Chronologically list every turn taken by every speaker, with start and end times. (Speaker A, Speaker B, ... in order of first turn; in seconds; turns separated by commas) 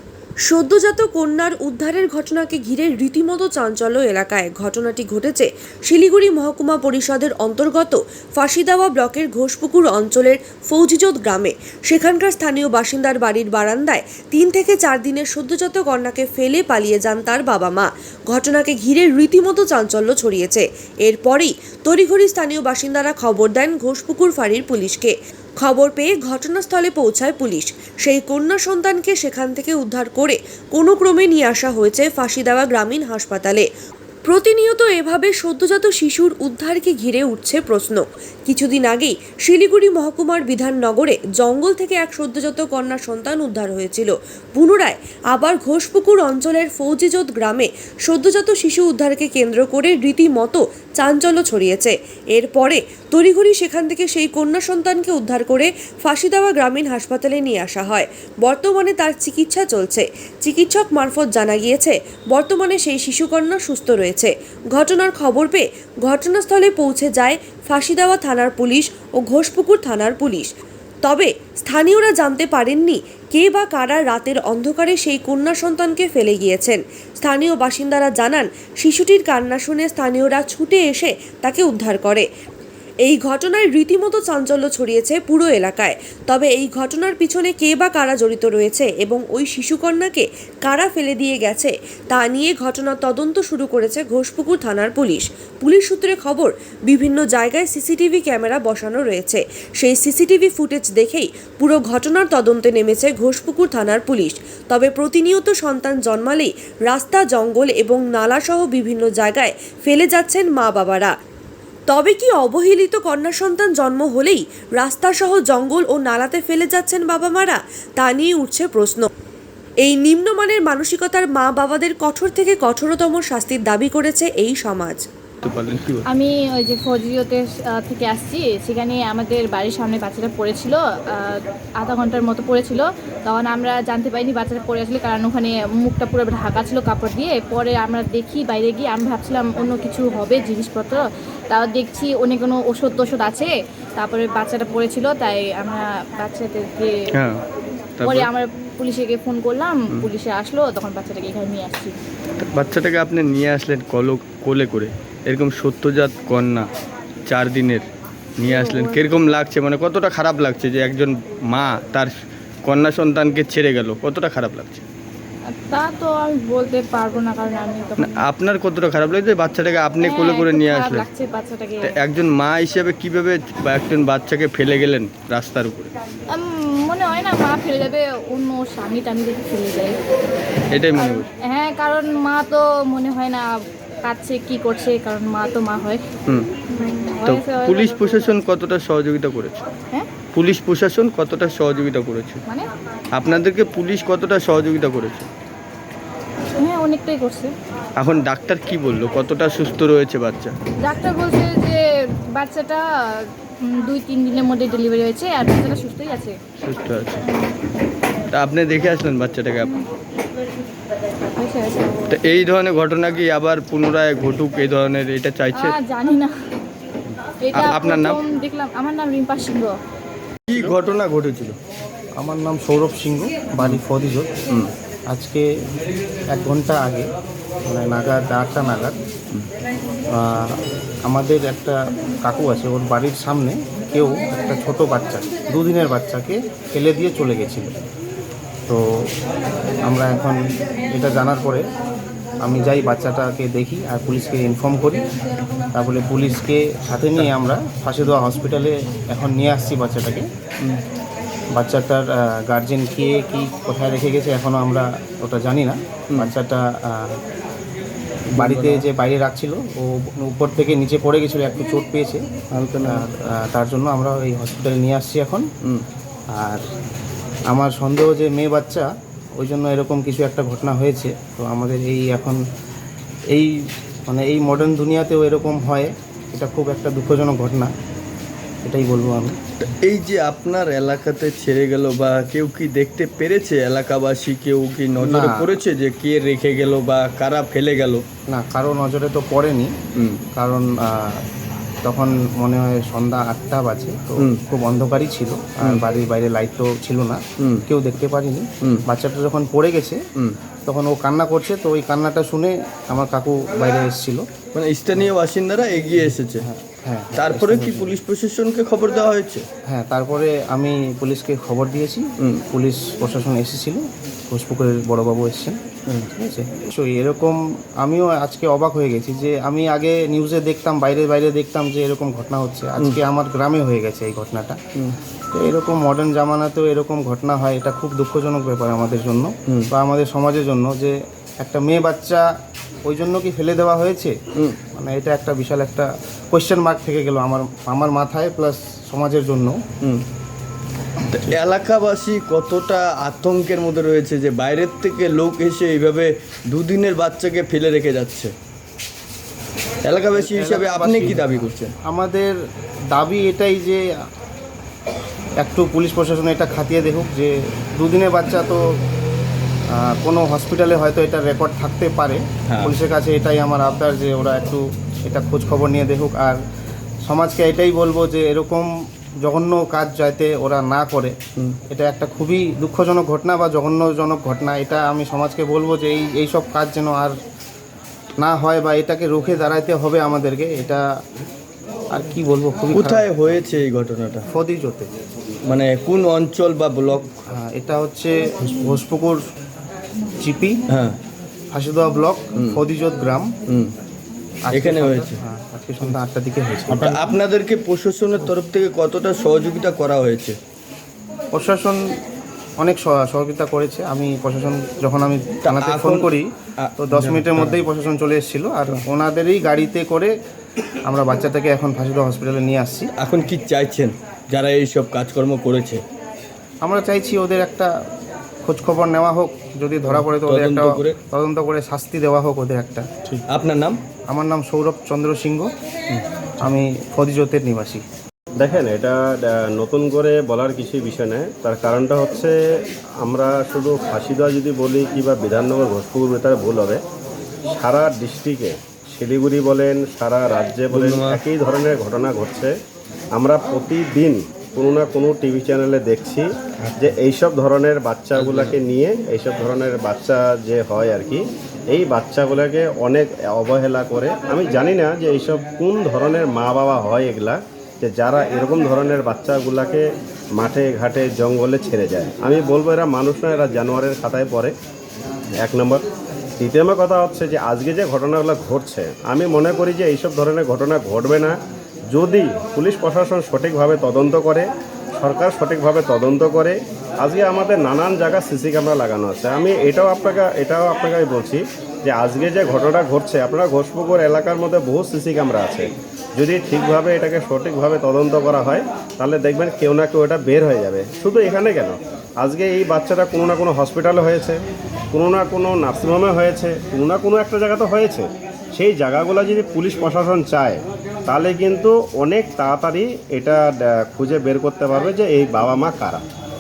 Speaker A: 0.5-33.6, Speaker A: 34.3-70.5, Speaker A: 71.0-82.2, Speaker A: 83.1-111.1, Speaker A: 111.9-119.1, Speaker A: 119.8-125.0, Speaker B: 125.4-126.0, Speaker C: 126.1-146.9, Speaker B: 147.2-147.4, Speaker B: 148.0-148.3, Speaker C: 148.0-151.9, Speaker B: 152.4-156.7, Speaker B: 157.3-157.9, Speaker B: 158.4-162.1, Speaker C: 158.4-159.0, Speaker B: 162.7-164.8, Speaker C: 165.5-168.2, Speaker B: 168.0-171.1, Speaker C: 170.0-171.9, Speaker B: 171.8-175.9, Speaker C: 176.3-180.0, Speaker B: 180.7-181.3, Speaker C: 181.0-183.5, Speaker C: 184.0-186.0, Speaker C: 186.7-188.2, Speaker B: 187.2-189.6, Speaker B: 190.3-192.4, Speaker B: 193.2-195.3, Speaker C: 196.6-197.5, Speaker B: 198.0-200.6, Speaker C: 200.8-201.8, Speaker C: 202.3-206.4, Speaker B: 206.6-207.2, Speaker C: 207.2-207.5, Speaker B: 208.3-209.7, Speaker C: 211.4-212.1, Speaker B: 212.1-215.8, Speaker C: 215.6-216.3, Speaker C: 217.4-219.8, Speaker B: 217.5-218.2, Speaker B: 220.5-221.6, Speaker D: 222.2-224.3, Speaker D: 225.1-225.4, Speaker D: 226.3-227.1, Speaker D: 227.7-228.9, Speaker D: 230.1-237.7, Speaker D: 239.8-240.4, Speaker D: 240.9-241.7, Speaker D: 242.4-245.0, Speaker D: 245.8-250.3, Speaker D: 251.6-257.2, Speaker D: 258.3-265.4, Speaker B: 258.4-258.8, Speaker B: 262.5-263.1, Speaker D: 266.3-266.6, Speaker D: 267.5-272.4, Speaker D: 274.1-277.7, Speaker D: 278.6-279.4, Speaker B: 279.6-288.0, Speaker D: 285.0-285.5, Speaker D: 288.3-289.7, Speaker B: 290.0-290.2, Speaker D: 290.4-291.2, Speaker D: 291.9-300.0, Speaker B: 297.4-297.6, Speaker D: 300.7-304.2, Speaker B: 304.5-306.4, Speaker D: 306.4-308.0, Speaker B: 307.1-309.4, Speaker D: 309.7-315.6, Speaker D: 316.1-324.6, Speaker D: 325.3-332.3, Speaker D: 332.9-334.1, Speaker D: 334.8-339.6, Speaker B: 341.1-348.3, Speaker B: 349.8-351.7, Speaker D: 350.2-352.4, Speaker D: 352.9-353.8, Speaker D: 355.4-358.6, Speaker D: 359.7-366.4, Speaker B: 362.5-362.8, Speaker D: 367.1-368.7, Speaker D: 369.2-371.1, Speaker D: 371.7-377.2, Speaker D: 378.2-380.8, Speaker D: 381.9-383.1, Speaker B: 382.7-384.2, Speaker D: 384.3-384.9, Speaker B: 385.5-387.1, Speaker D: 387.3-389.2, Speaker D: 390.2-390.6, Speaker B: 390.7-391.0, Speaker D: 391.5-393.3, Speaker B: 392.4-392.6, Speaker D: 394.5-397.1, Speaker B: 394.5-395.2, Speaker B: 396.7-400.4, Speaker D: 401.4-401.8, Speaker D: 402.6-410.1, Speaker B: 405.4-407.6, Speaker D: 410.9-412.9, Speaker B: 413.0-415.8, Speaker D: 416.6-417.7, Speaker D: 418.4-423.2, Speaker B: 419.9-421.0, Speaker B: 423.3-423.8, Speaker D: 424.1-425.5, Speaker D: 426.4-427.8, Speaker E: 428.4-432.3, Speaker E: 433.0-436.8, Speaker E: 437.5-442.5, Speaker B: 440.7-441.2, Speaker E: 443.2-446.3, Speaker B: 446.6-447.0, Speaker E: 446.8-459.9, Speaker B: 448.1-448.6, Speaker E: 460.4-464.5, Speaker E: 465.4-465.9, Speaker E: 466.4-471.3, Speaker E: 471.9-474.5, Speaker E: 475.0-494.4, Speaker E: 494.9-506.0